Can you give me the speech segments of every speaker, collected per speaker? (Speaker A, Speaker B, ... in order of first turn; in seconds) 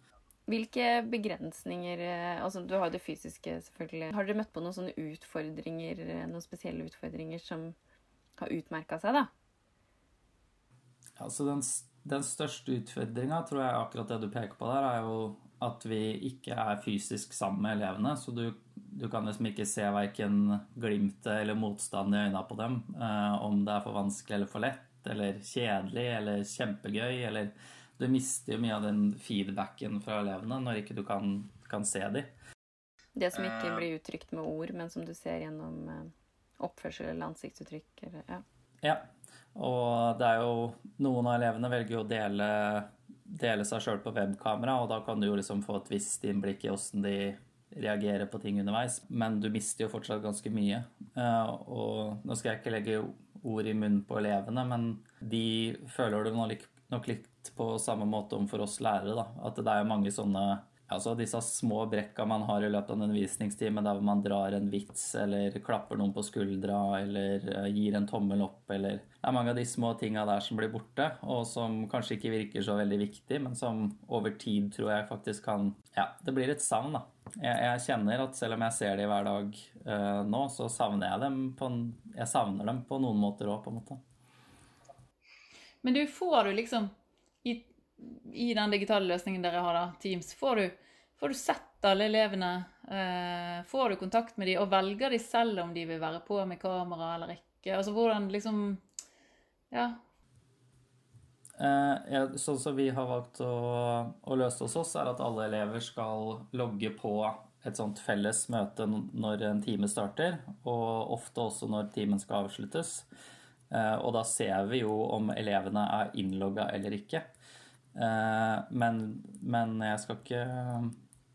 Speaker A: 0.5-7.8, 8.4-9.3, 33.2-38.4
Speaker B: 11.2-32.3, 33.4-33.9, 38.8-84.0, 101.6-113.1, 113.7-117.3, 117.9-121.0
Speaker C: 85.8-86.9, 87.4-98.8, 99.7-100.0